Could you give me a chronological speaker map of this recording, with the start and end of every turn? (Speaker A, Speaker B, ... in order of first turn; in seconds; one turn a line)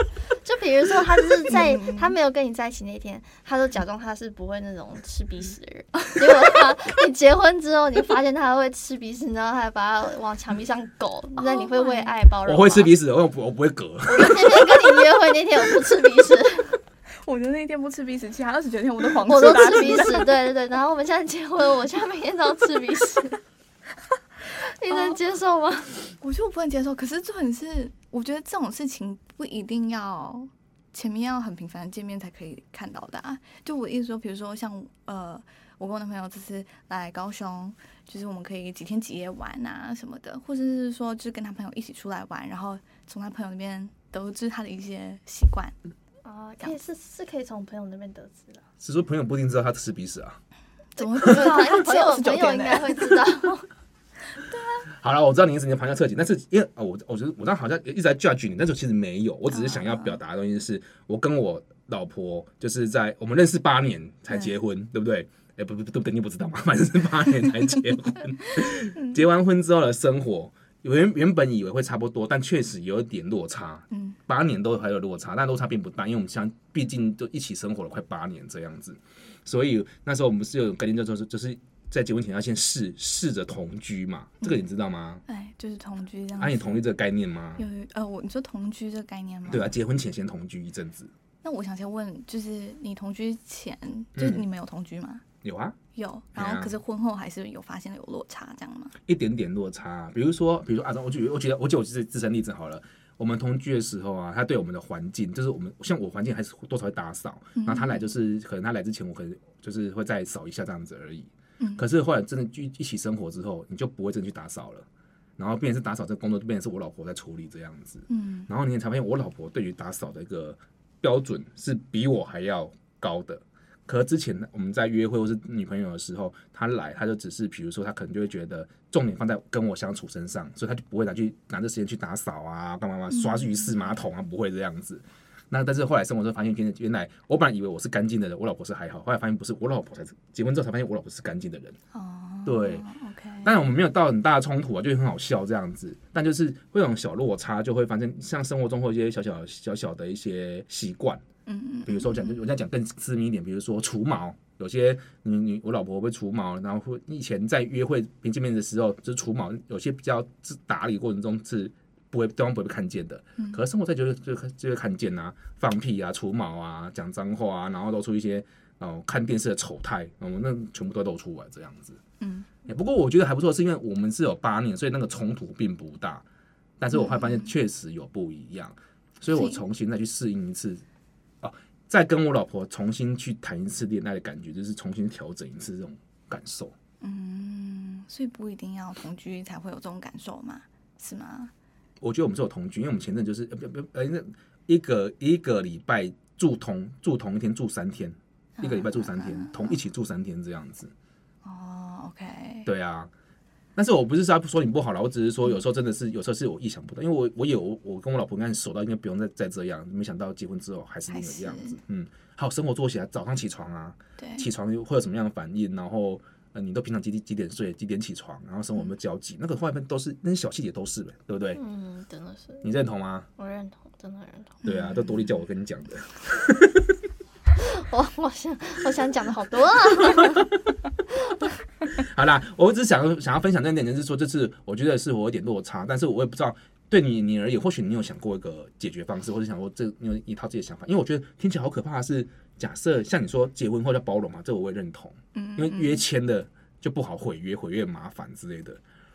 Speaker A: 0.4-12.9
Speaker B: 1.5-2.1
Speaker B: 11.4-12.1
Speaker C: 12.4-14.8
Speaker A: 14.1-16.8
Speaker B: 17.2-20.4
Speaker A: 19.2-23.4
Speaker A: 24.5-26.1
Speaker B: 24.9-25.2
Speaker B: 26.2-45.8
Speaker A: 46.2-48.6
Speaker C: 48.8-50.4
Speaker B: 51.0-53.2
Speaker A: 51.0-53.7
Speaker B: 54.5-54.8
Speaker C: 54.9-85.2
Speaker B: 59.5-60.2
Speaker B: 68.7-69.2
Speaker B: 73.9-74.2
Speaker B: 85.3-86.9
Speaker C: 86.4-87.7
Speaker B: 87.6-89.7
Speaker C: 89.5-91.1
Speaker B: 91.4-95.2
Speaker C: 94.2-94.5
Speaker C: 95.4-95.8
Speaker B: 95.9-99.0
Speaker C: 96.3-96.8
Speaker C: 99.1-114.9
Speaker B: 107.6-108.1
Speaker C: 115.4-141.8
Speaker B: 118.1-118.5
Speaker B: 133.1-134.0
Speaker B: 141.9-143.6
Speaker C: 142.5-142.9
Speaker C: 143.4-151.2
Speaker B: 151.5-152.4
Speaker C: 151.9-172.0
Speaker B: 172.2-172.5
Speaker C: 172.7-176.2
Speaker C: 176.8-180.8
Speaker B: 176.9-177.5
Speaker B: 179.3-179.6
Speaker C: 181.4-186.7
Speaker B: 187.0-191.5
Speaker C: 192.0-200.9
Speaker B: 198.6-199.8
Speaker B: 201.4-202.7
Speaker C: 202.7-203.1
Speaker C: 203.8-221.6
Speaker B: 211.1-211.8
Speaker B: 214.2-214.5
Speaker A: 221.6-222.7
Speaker C: 222.6-223.3
Speaker A: 223.4-224.6
Speaker B: 224.6-225.4
Speaker C: 224.7-226.9
Speaker A: 227.6-230.4
Speaker C: 231.9-248.8
Speaker B: 245.3-246.0